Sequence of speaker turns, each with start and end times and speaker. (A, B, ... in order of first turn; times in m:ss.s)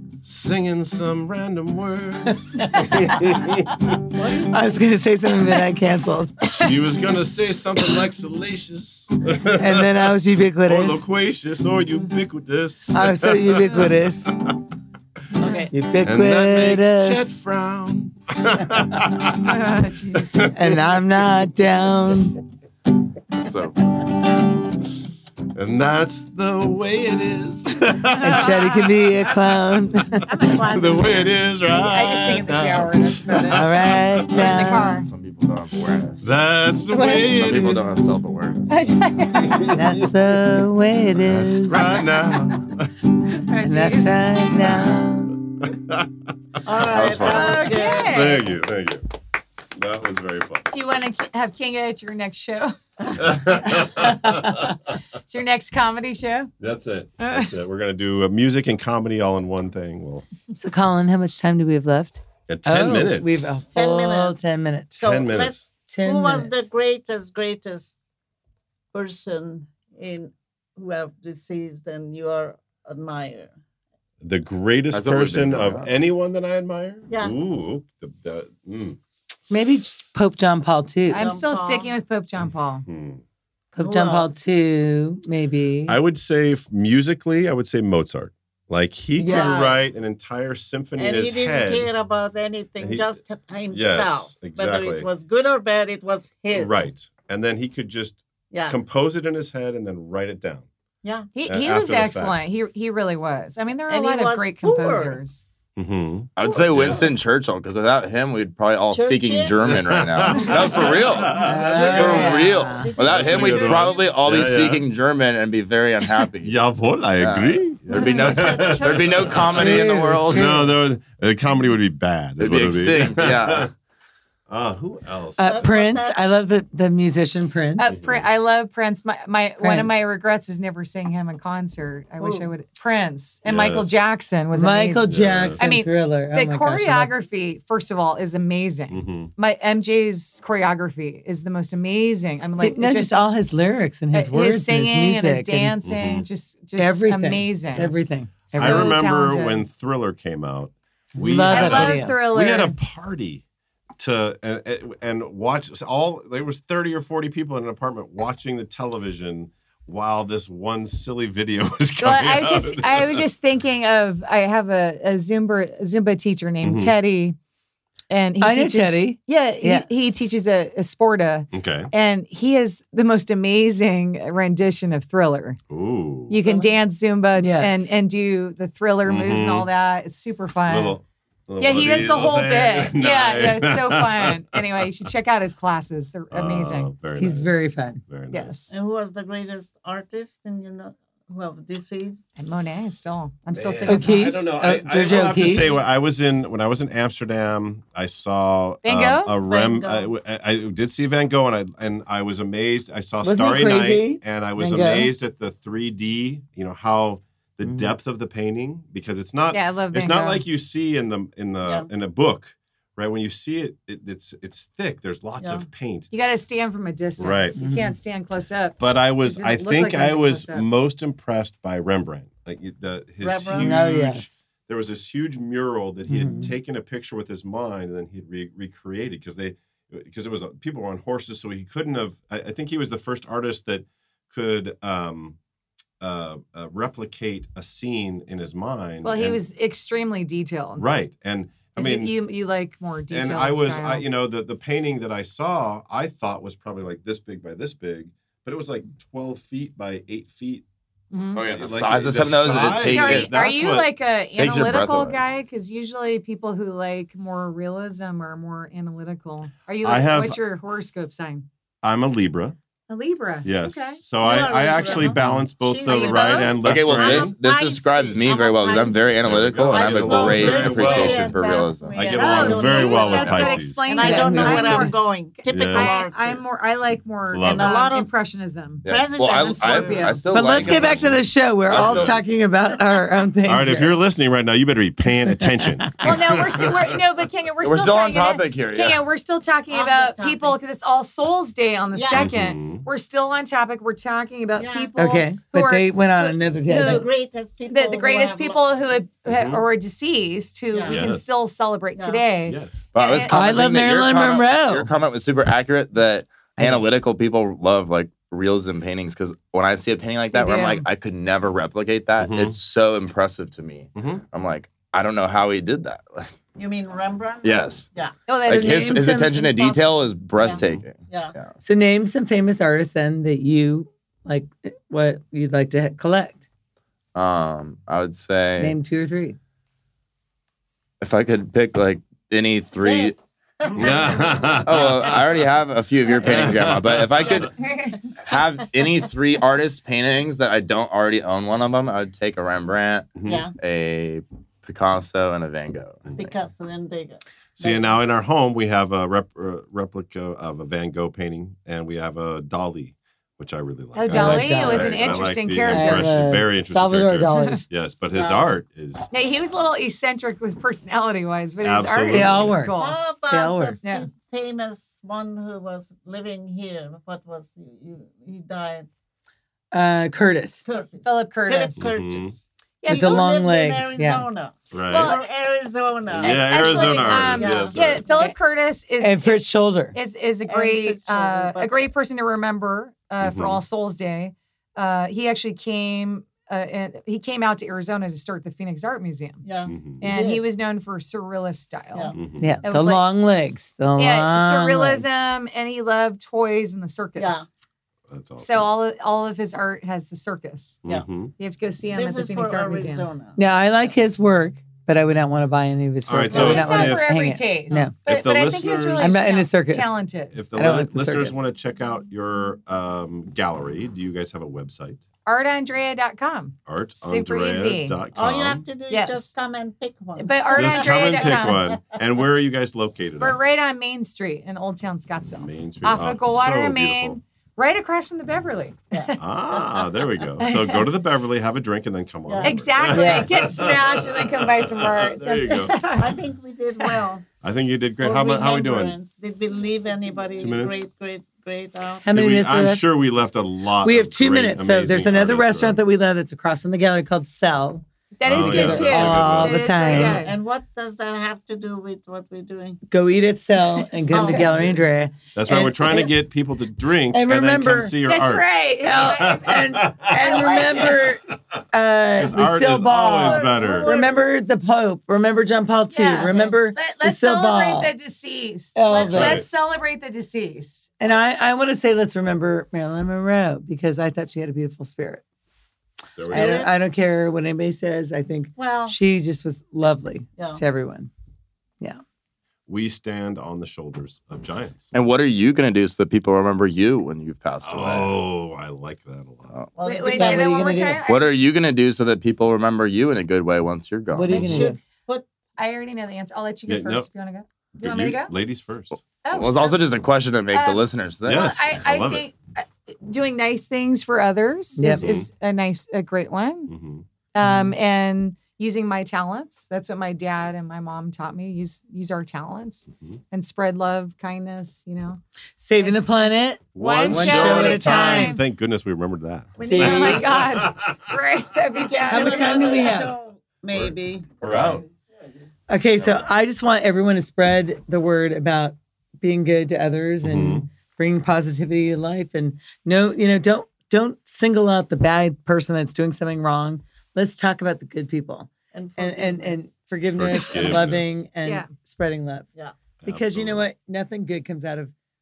0:00.2-0:03.8 A
0:04.2-0:04.5 B
0:04.5-0:06.6 C
0:06.5-0:10.1 A
0:09.5-0:11.0 C
0:10.6-0:14.0 A
0:12.9-0:14.3 C
0:15.4-0:15.7 D
0:15.4-0:15.7 B
0:15.7-0:17.4 C
0:16.0-0:19.6 A
0:19.4-0:20.5 B
0:20.1-0:20.6 A
0:20.5-0:22.4 C
0:25.5-0:29.0 A
0:28.2-0:30.3 C
0:28.2-0:28.9 B
0:30.3-0:35.1 B
0:30.5-0:34.2 A
0:33.5-0:35.0 C
0:35.0-0:36.3 E
0:36.2-0:38.2 A
0:36.9-0:37.3 B
0:37.1-0:38.8 E
0:38.7-0:39.8 B
0:39.4-0:40.1 A
0:39.6-0:41.8 C
0:41.2-0:42.9 A
0:43.3-0:44.4 B
0:43.6-0:45.4 C
0:45.6-0:46.1 A
0:46.6-0:48.4 D
0:46.8-0:47.7 E
0:47.2-0:48.4 B
0:47.8-0:49.0 A
0:49.7-0:50.7 A
0:50.7-0:52.8 B
0:53.1-0:54.9 A
0:54.3-0:54.6 B
0:55.3-0:56.5 B
0:56.6-1:00.2 A
0:57.2-0:57.5 B
1:00.5-1:05.0 C
1:02.5-1:03.6 A
1:03.7-1:04.4 D
1:05.0-1:07.9 D
1:05.0-1:05.6 A
1:05.8-1:06.6 C
1:08.9-1:13.5 D
1:14.2-1:19.0 A
1:14.9-1:15.9 E
1:17.1-1:17.3 D
1:19.5-1:21.2 C
1:21.1-1:22.8 B
1:21.2-1:21.9 D
1:22.9-1:23.2 A
1:23.7-1:26.0 C
1:23.8-1:24.3 D
1:25.9-1:31.9 A
1:29.2-1:29.7 C
1:29.2-1:29.8 D
1:31.0-1:36.9 D
1:32.8-1:33.2 A
1:33.7-1:35.1 A
1:36.5-1:40.7 A
1:38.5-1:38.8 D
1:41.0-1:41.3 D
1:41.3-1:45.4 B
1:41.4-1:42.4 A
1:43.9-1:45.2 D
1:45.8-1:47.1 A
1:46.4-1:56.6 E
1:46.4-1:47.1 D
1:48.9-1:49.7 D
1:49.6-1:52.3 A
1:50.4-1:54.1 D
1:51.3-1:52.9 C
1:52.9-1:54.8 A
1:56.4-2:03.7 A
1:57.2-2:00.7 E
1:57.9-1:59.8 D
1:59.5-2:00.7 C
2:02.4-2:03.7 E
2:04.5-2:05.7 A
2:05.4-2:08.0 C
2:05.4-2:06.2 D
2:07.8-2:23.2 B
2:07.9-2:08.3 A
2:09.6-2:10.0 C
2:12.2-2:12.5 D
2:13.4-2:14.0 A
2:14.5-2:17.1 C
2:15.1-2:15.6 A
2:18.9-2:19.3 A
2:22.6-2:25.7 C
2:24.1-2:29.6 B
2:25.8-2:26.3 A
2:26.8-2:29.0 C
2:28.5-2:33.4 A
2:31.1-2:32.2 C
2:31.3-2:32.7 B
2:34.0-2:43.2 A
2:42.0-2:47.4 B
2:46.6-2:46.9 A
2:48.1-2:55.6 B
2:48.4-2:49.9 C
2:51.5-2:51.9 A
2:55.7-2:56.4 A
2:56.3-3:01.0 B
2:57.4-2:57.9 C
2:59.0-2:59.7 A
3:00.7-3:04.6 A
3:01.6-3:06.9 B
3:06.3-3:08.5 A
3:07.2-3:08.0 C
3:08.3-3:08.7 B
3:08.7-3:12.2 D
3:12.4-3:14.3 B
3:13.5-3:36.1 A
3:13.9-3:15.7 C
3:18.8-3:19.3 B
3:19.4-3:20.1 D
3:23.2-3:25.1 C
3:29.5-3:30.4 B
3:31.6-3:31.9 D
3:35.4-3:35.6 D
3:36.1-3:40.6 B
3:37.2-3:37.6 A
3:37.6-3:37.9 C
3:38.8-3:55.4 A
3:43.2-3:43.9 D
3:43.5-3:44.4 C
3:46.1-3:46.5 C
3:56.0-3:59.4 A
3:59.0-4:00.8 B
4:00.8-4:02.1 A
4:01.8-4:04.0 B
4:03.1-4:10.6 A
4:11.1-4:11.4 B
4:11.3-4:13.3 E
4:11.4-4:13.9 A
4:12.7-4:21.4 B
4:14.4-4:15.2 E
4:19.8-4:20.4 A
4:21.8-4:22.6 A
4:22.9-4:24.0 B
4:23.4-4:27.3 A
4:24.2-4:36.5 D
4:24.8-4:25.2 B
4:25.8-4:26.6 B
4:26.6-4:32.2 E
4:29.2-4:31.4 A
4:31.9-4:33.8 A
4:32.0-4:40.2 B
4:34.0-4:34.9 C
4:35.5-4:36.0 A
4:37.3-4:37.8 A
4:37.4-4:38.1 D
4:38.8-4:42.2 E
4:38.8-4:40.2 D
4:40.3-4:44.0 C
4:40.5-4:42.2 A
4:43.4-4:47.0 A
4:45.4-4:46.1 C
4:46.0-4:57.1 B
4:47.6-4:49.0 E
4:49.7-4:50.6 D
4:51.9-4:52.3 D
4:52.1-4:52.9 A
4:54.6-4:54.9 D
4:55.0-4:57.1 C
4:56.7-4:58.8 D
4:57.7-5:03.4 B
4:59.2-4:59.6 A
5:00.7-5:01.0 D
5:00.9-5:01.3 A
5:02.0-5:02.2 D
5:02.5-5:02.9 A
5:02.9-5:16.3 E
5:03.3-5:04.9 C
5:06.6-5:06.8 C
5:10.3-5:10.8 B
5:12.2-5:12.6 A
5:13.9-5:14.2 A
5:16.6-5:18.2 D
5:17.4-5:17.9 E
5:18.3-5:19.8 B
5:18.4-5:21.5 E
5:18.4-5:19.4 C
5:20.4-5:21.3 D
5:20.6-5:20.8 A
5:21.6-5:26.4 C
5:27.1-5:28.8 E
5:28.6-5:29.4 C
5:31.0-5:33.2 E
5:32.8-5:35.1 D
5:33.7-5:35.2 A
5:34.6-5:37.6 E
5:36.2-5:37.5 A
5:36.2-5:36.6 D
5:37.4-5:38.1 B
5:38.2-5:46.1 E
5:43.2-5:43.4 A
5:43.2-5:43.5 D
5:46.0-5:46.3 A
5:46.2-5:48.0 D
5:47.6-5:59.1 A
5:53.9-5:56.2 B
5:54.1-5:55.1 C
5:55.6-5:57.6 C
5:57.3-5:57.6 B
5:58.1-5:58.5 D
5:59.1-6:03.0 B
6:01.6-6:02.5 A
6:02.1-6:02.8 C
6:02.6-6:08.9 D
6:03.3-6:03.8 C
6:09.7-6:10.6 C
6:10.6-6:18.3 D
6:11.0-6:11.8 B
6:11.8-6:12.3 A
6:12.8-6:13.2 B
6:12.9-6:14.2 C
6:14.7-6:15.2 A
6:14.9-6:15.2 B
6:16.1-6:18.0 A
6:16.2-6:29.4 B
6:19.0-6:20.0 C
6:20.4-6:21.9 D
6:23.2-6:23.6 A
6:29.4-6:30.4 D
6:29.7-6:30.1 A
6:30.0-6:33.0 B
6:32.1-6:32.5 A
6:32.4-6:35.0 C
6:34.0-6:37.4 B
6:37.2-6:37.5 D
6:38.1-6:38.7 A
6:38.4-6:40.8 B
6:40.8-6:41.3 A
6:41.4-6:43.0 B
6:41.9-6:43.4 D
6:43.4-6:47.9 C
6:46.0-6:47.1 A
6:46.3-6:46.9 D
6:46.3-6:50.4 B
6:47.9-6:49.2 A
6:49.0-6:50.0 C
6:50.3-6:55.0 A
6:50.5-6:51.4 C
6:55.2-6:58.0 B
6:56.6-6:58.6 A
6:58.1-7:01.9 D
6:58.9-6:59.3 B
7:00.2-7:01.8 B
7:00.5-7:03.4 A
7:03.2-7:09.2 B
7:05.4-7:07.2 A
7:08.9-7:09.8 D
7:09.2-7:15.8 A
7:10.4-7:10.9 B
7:12.2-7:13.1 D
7:12.4-7:16.2 B
7:15.9-7:17.2 D
7:17.4-7:18.9 A
7:18.0-7:22.0 D
7:20.4-7:20.8 A
7:22.0-7:22.9 C
7:22.1-7:25.8 A
7:23.8-7:30.2 C
7:28.2-7:30.3 B
7:28.2-7:30.2 A
7:29.8-7:32.8 D
7:32.9-7:36.2 C
7:34.1-7:34.4 B
7:34.1-7:34.8 D
7:35.3-7:40.2 A
7:37.1-7:38.0 C
7:38.0-7:39.6 B
7:38.8-7:47.9 C
7:40.2-7:41.1 B
7:42.1-7:43.9 A
7:43.0-7:44.2 D
7:45.9-7:51.1 B
7:48.7-7:49.4 C
7:48.9-7:49.5 A
7:51.0-7:55.2 C
7:56.2-7:56.6 A
7:56.2-7:56.7 D
7:56.3-8:01.1 C
7:58.6-7:59.0 D
8:02.7-8:04.9 A
8:04.9-8:08.1 E
8:07.6-8:09.6 A
8:09.8-8:11.0 D
8:09.8-8:11.3 B
8:10.1-8:11.0 C
8:11.1-8:14.7 E
8:14.1-8:14.8 C
8:14.3-8:15.2 D
8:15.6-8:18.3 B
8:16.7-8:17.1 A
8:17.7-8:19.0 A
8:19.2-8:19.8 B
8:19.3-8:21.6 E
8:20.5-8:26.7 B
8:21.2-8:22.2 A
8:24.8-8:25.1 C
8:24.9-8:25.3 A
8:26.7-8:27.0 A
8:27.3-8:35.2 B
8:27.4-8:27.8 C
8:35.6-8:38.4 C
8:35.8-8:38.4 B
8:36.7-8:41.0 A
8:39.6-8:40.4 D
8:39.6-8:40.1 C
8:39.7-8:43.0 B
8:41.8-8:44.3 D
8:42.0-8:43.1 C
8:44.4-8:44.8 A
8:45.7-9:02.5 C
8:50.2-8:50.7 A
8:58.7-8:59.7 D
9:00.1-9:01.2 A
9:01.4-9:01.7 B
9:03.0-9:03.6 A
9:03.0-9:04.9 C